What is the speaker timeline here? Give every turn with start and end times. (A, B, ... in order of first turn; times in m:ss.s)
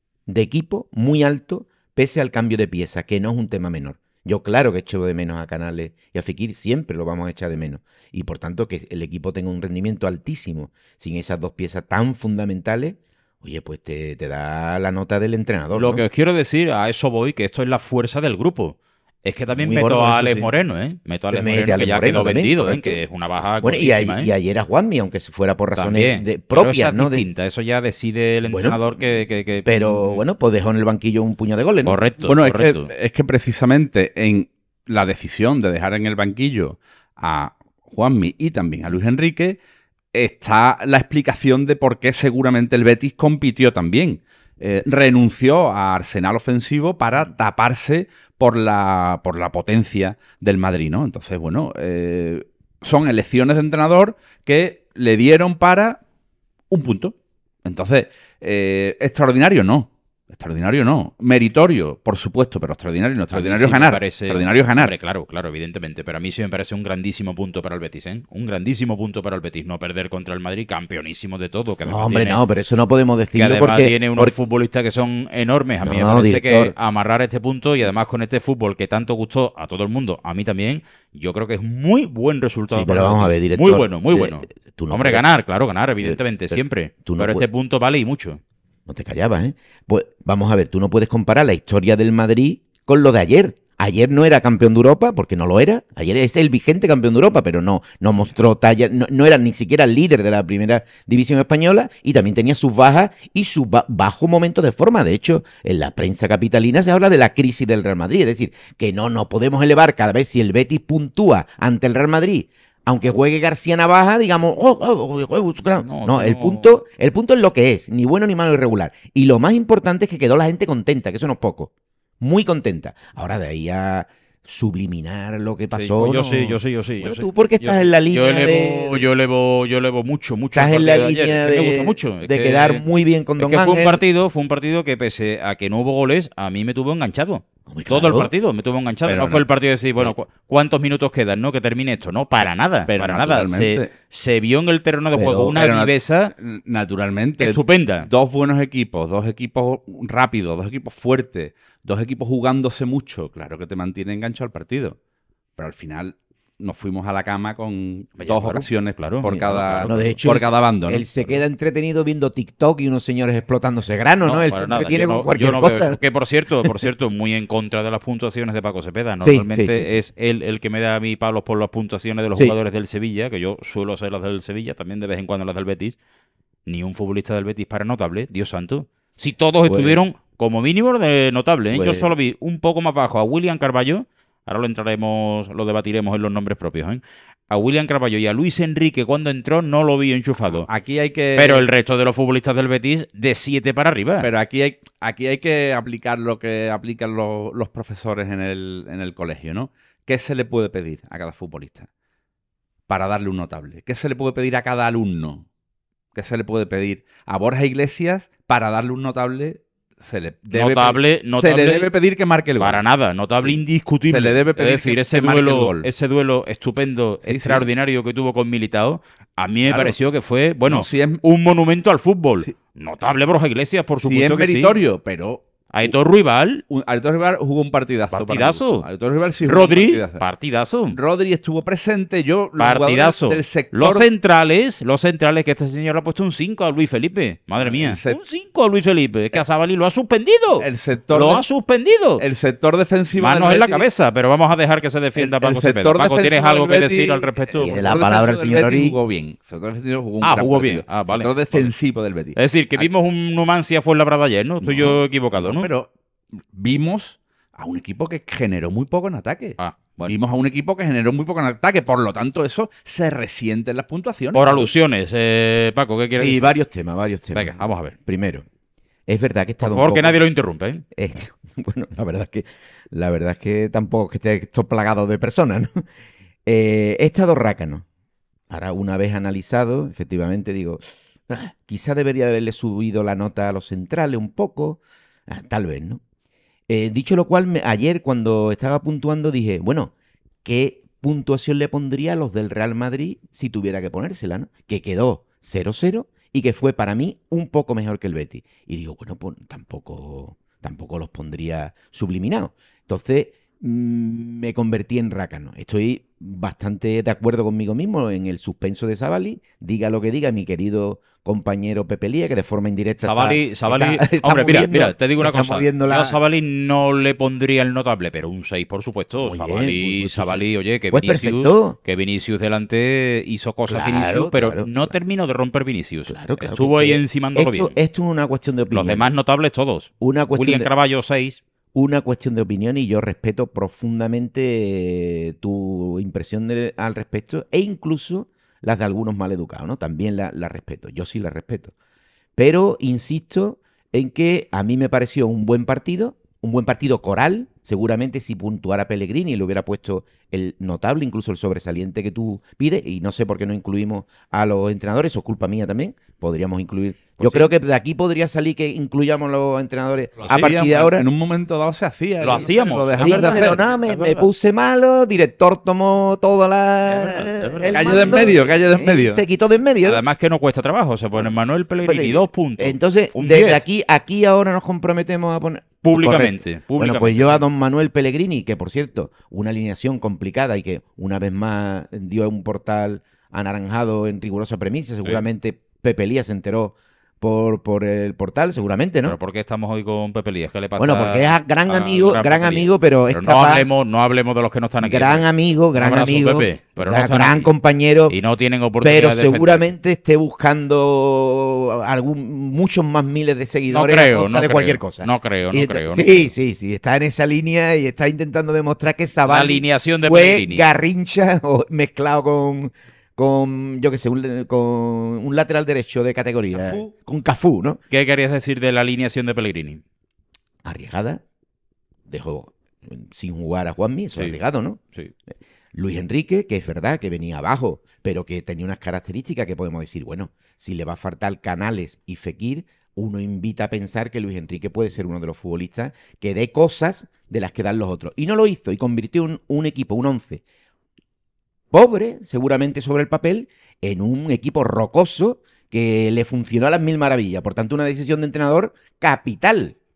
0:00.2-0:16.0 A
0:15.7-0:24.3 B
0:19.6-0:20.5 A
0:21.3-0:23.0 A
0:23.6-0:27.2 A
0:25.8-0:30.2 B
0:28.5-0:28.8 A
0:29.6-0:32.0 A
0:31.8-0:32.9 B
0:32.2-0:39.6 C
0:40.1-0:56.0 C
0:56.7-1:04.9 C
1:03.3-1:12.4 B
1:11.9-1:14.3 A
1:13.3-1:28.4 B
1:15.8-1:16.7 A
1:22.7-1:25.2 A
1:26.0-1:27.4 A
1:28.9-2:09.1 A
1:55.8-1:56.7 B
2:05.7-2:12.8 B
2:10.5-2:14.0 A
2:13.4-2:26.3 B
2:17.7-2:18.3 A
2:19.0-2:19.4 C
2:22.9-2:23.9 C
2:25.1-2:25.5 A
2:25.5-2:35.0 C
2:27.4-2:28.1 B
2:35.6-2:41.1 C
2:38.2-2:40.2 B
2:39.9-2:46.0 A
2:44.2-2:56.0 B
2:46.6-2:46.9 A
2:49.2-2:49.9 A
2:56.6-3:10.7 B
2:59.6-3:00.0 A
3:01.7-3:02.1 A
3:10.6-3:11.7 C
3:11.4-3:14.3 B
3:14.2-3:21.9 C
3:22.9-3:25.4 C
3:26.1-3:32.8 C
3:30.5-3:31.9 B
3:32.6-3:44.8 B
3:33.4-3:35.9 C
3:37.2-3:37.7 C
3:39.6-3:40.0 C
3:40.6-3:41.2 C
3:44.0-3:45.9 C
3:45.7-3:46.6 B
3:46.7-3:50.2 C
3:48.1-3:48.8 B
3:49.4-3:51.0 B
3:50.9-3:54.1 C
3:52.6-4:02.2 B
3:57.6-3:58.2 C
4:00.6-4:01.4 C
4:02.2-4:03.8 C
4:03.2-4:07.9 B
4:05.2-4:12.9 C
4:07.6-4:09.0 A
4:10.2-4:11.7 B
4:12.3-4:15.7 B
4:14.6-4:15.9 C
4:16.5-4:24.7 C
4:19.6-4:20.1 B
4:24.3-4:26.5 B
4:26.1-4:28.4 A
4:27.3-4:27.9 B
4:29.1-4:30.2 A
4:29.6-4:30.8 B
4:30.9-4:35.8 A
4:36.4-4:37.8 A
4:38.5-4:46.0 A
4:46.7-4:49.9 A
4:50.4-5:16.2 A
5:13.0-5:27.8 B
5:19.2-5:21.8 A
5:23.7-5:24.9 A
5:26.1-5:29.1 A
5:28.7-5:31.4 B
5:30.0-5:30.7 A
5:31.7-5:41.7 A
5:42.4-6:01.1 A
5:57.2-5:57.5 B
6:00.2-6:03.6 C
6:00.2-6:00.5 B
6:02.2-6:04.3 B
6:03.0-6:10.0 A
6:06.9-6:08.4 B
6:07.7-6:09.2 C
6:09.8-6:13.6 B
6:11.2-6:29.2 A
6:15.8-6:17.4 B
6:29.0-6:37.5 B
6:30.8-6:33.7 A
6:34.8-6:38.2 A
6:38.1-6:39.7 B
6:38.8-6:57.8 A
6:43.7-6:46.3 B
6:49.2-6:50.7 B
6:56.5-6:56.9 C
6:57.9-6:59.8 B
7:00.6-7:01.2 A
7:02.1-7:04.8 A
7:04.1-7:04.4 B
7:05.7-7:20.4 A
7:21.7-7:29.8 A